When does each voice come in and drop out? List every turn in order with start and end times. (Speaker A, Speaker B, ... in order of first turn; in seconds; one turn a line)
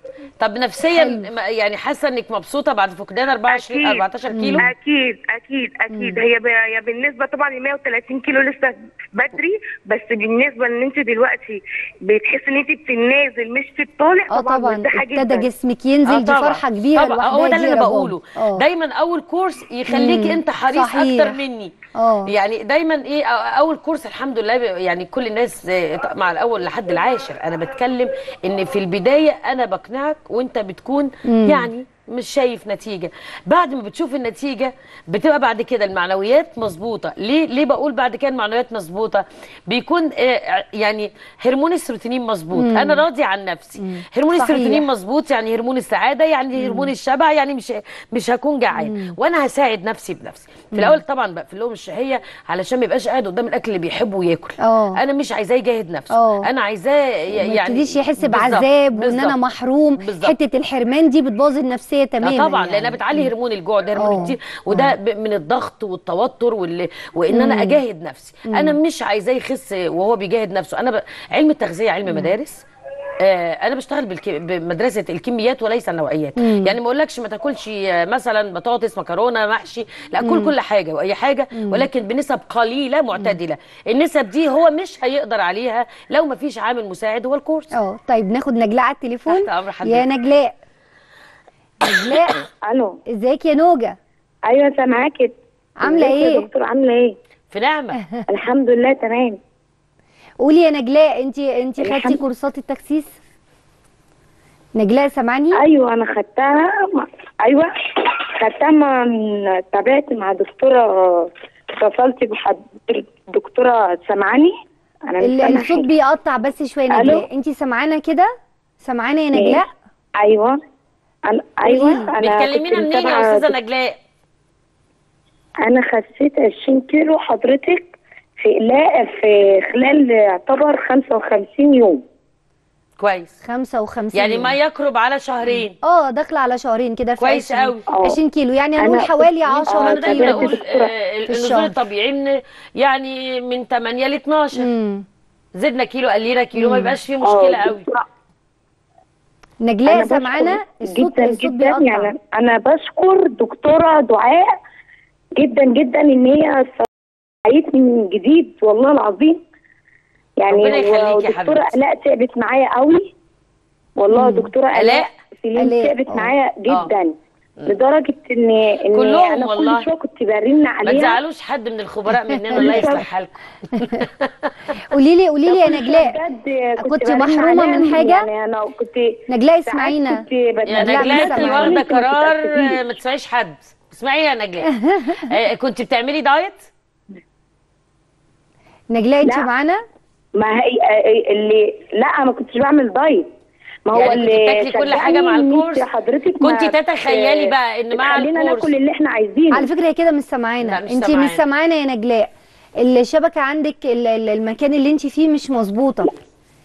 Speaker A: 0.4-4.7
Speaker B: 1.0-1.3
Speaker C: 3.5-4.1
Speaker B: 4.3-4.7
Speaker C: 4.6-15.5
Speaker B: 5.9-6.2
Speaker B: 14.3-18.6
Speaker A: 16.1-21.7
Speaker B: 19.9-21.4
Speaker B: 21.9-22.3
Speaker A: 22.3-59.4
Speaker B: 31.3-31.7
Speaker B: 42.5-43.0
Speaker B: 43.8-44.9
Speaker B: 46.6-46.9
Speaker B: 48.7-49.1
Speaker B: 50.7-51.0
Speaker B: 54.6-55.0
Speaker B: 56.1-56.5
Speaker B: 57.4-63.3
Speaker A: 60.0-60.4
Speaker A: 62.2-72.6
Speaker B: 64.0-64.9
Speaker B: 67.3-67.8
Speaker B: 68.5-68.8
Speaker B: 72.1-72.3
Speaker A: 73.2-87.7
Speaker B: 76.4-76.8
Speaker B: 80.2-80.5
Speaker B: 81.5-81.9
Speaker B: 87.7-90.5
Speaker A: 89.3-90.1
Speaker B: 91.8-92.4
Speaker D: 92.7-93.0
Speaker B: 93.1-94.0
Speaker D: 94.5-97.2
Speaker B: 95.8-96.5
Speaker A: 97.5-98.0
Speaker D: 98.3-99.4
Speaker B: 100.4-103.2
Speaker D: 101.8-102.2
Speaker B: 104.8-105.6
Speaker D: 105.6-114.5
Speaker D: 115.1-115.9
Speaker B: 115.2-119.7
Speaker D: 116.9-117.2
Speaker D: 119.3-119.6
Speaker D: 120.2-120.6
Speaker D: 121.3-123.5
Speaker B: 121.7-122.1
Speaker A: 122.2-124.0
Speaker D: 125.6-132.0
Speaker A: 133.0-133.3
Speaker B: 133.4-134.6
Speaker A: 134.1-135.8
Speaker B: 135.8-140.6
Speaker A: 137.2-137.8
Speaker D: 138.8-140.9
Speaker A: 139.4-144.7
Speaker B: 141.3-141.7
Speaker B: 144.6-145.1
Speaker A: 145.6-147.8
Speaker B: 146.6-147.0
Speaker D: 147.2-148.0
Speaker B: 149.6-152.1
Speaker D: 149.9-154.6
Speaker D: 155.4-156.9
Speaker D: 157.5-159.4
Speaker D: 160.4-163.1
Speaker A: 160.5-161.8
Speaker D: 164.0-167.2
Speaker B: 164.1-164.5
Speaker A: 164.7-165.1
Speaker B: 165.6-166.0
Speaker D: 167.7-171.2
Speaker A: 168.9-169.9
Speaker A: 170.8-174.1
Speaker B: 172.5-173.0
Speaker D: 172.6-173.1
Speaker B: 174.9-176.2
Speaker D: 175.5-182.8
Speaker B: 176.8-178.3
Speaker B: 179.3-180.2
Speaker A: 180.7-184.7
Speaker B: 180.8-181.8
Speaker B: 184.7-185.3
Speaker A: 185.2-186.7
Speaker B: 188.9-189.8
Speaker D: 190.4-193.3
Speaker D: 193.9-199.7
Speaker A: 193.9-195.9
Speaker A: 196.4-198.7
Speaker B: 199.5-202.3
Speaker A: 200.6-201.4
Speaker B: 202.8-206.1